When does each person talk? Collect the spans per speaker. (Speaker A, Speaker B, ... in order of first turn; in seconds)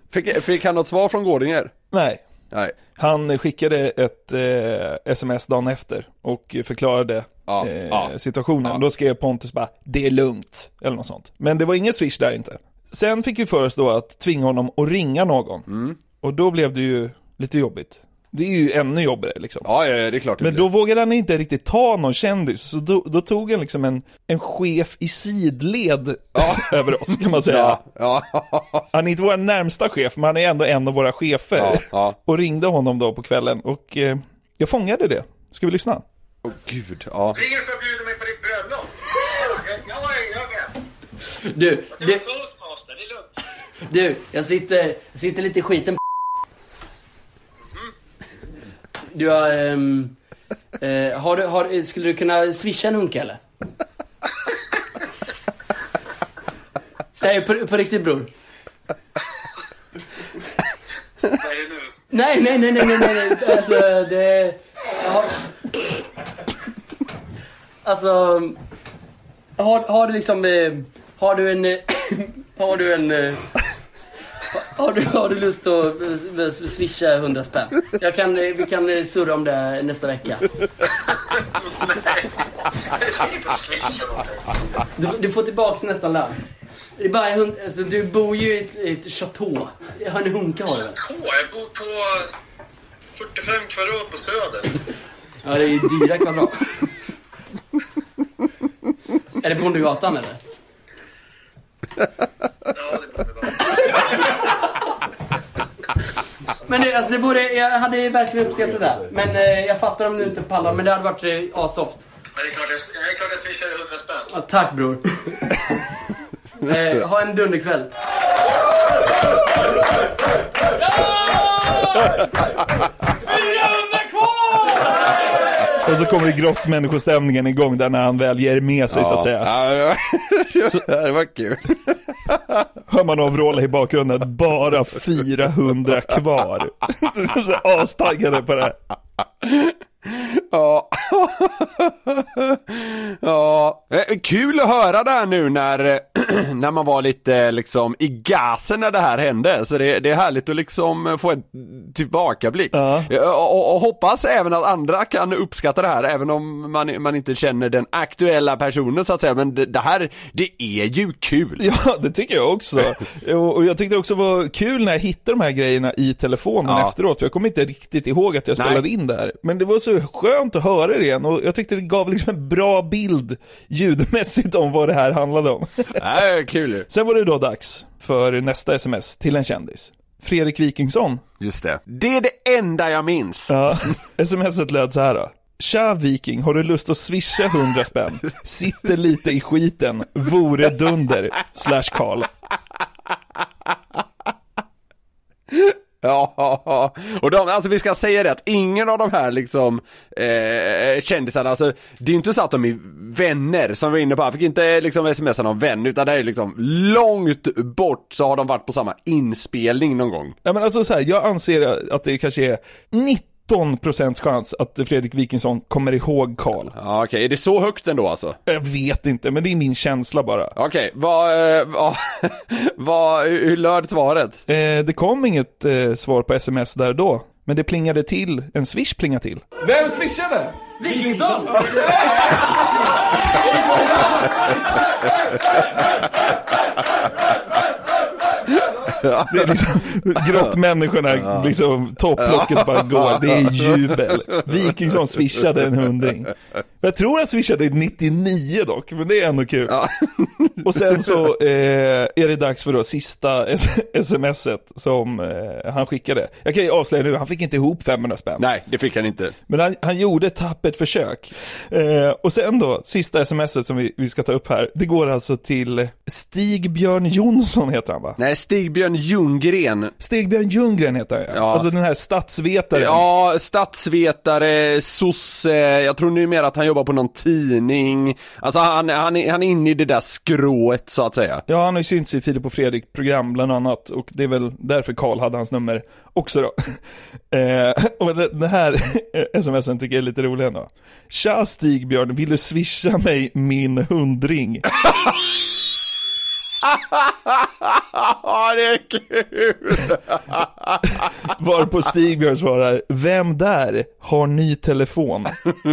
Speaker A: 0.1-1.7, 7.5-8.1, 15.7-16.0, 19.6-20.7, 26.4-28.9, 31.6-32.2, 36.4-37.6, 128.9-132.7, 139.4-161.7, 166.7-166.9, 168.6-168.8, 175.9-176.9, 181.4-183.9, 195.5-210.3, 216.8-218.4, 220.6-224.4, 238.9-239.6, 242.3-244.5, 249.7-251.2, 258.4-259.4, 268.2-269.9, 271.3-271.7, 272.7-281.4, 296.7-301.0
Speaker B: 1.9-2.2, 3.0-15.7, 16.2-19.7, 20.4-27.8, 28.9-36.0, 125.8-129.5, 132.9-138.8, 152.7-153.1, 161.6-176.1, 176.9-181.2, 183.5-192.3, 210.4-216.8, 218.5-220.5, 224.5-229.4, 239.3-249.8, 250.6-258.5, 259.5-268.2, 270.0-273.0, 281.5-294.7, 301.2-305.4
Speaker C: 37.9-38.9, 91.2-92.0, 93.2-94.6, 112.5-114.1
Speaker D: 41.5-42.4, 43.9-46.0, 49.1-50.1, 50.8-53.4, 57.2-58.3, 62.1-65.5, 67.8-68.6, 69.6-73.4, 74.5-80.5, 85.0-86.4, 87.0-91.1, 95.4-96.8, 99.4-100.4, 106.7-112.1, 114.2-115.6, 116.6-117.9, 230.8-231.7
Speaker E: 229.6-232.3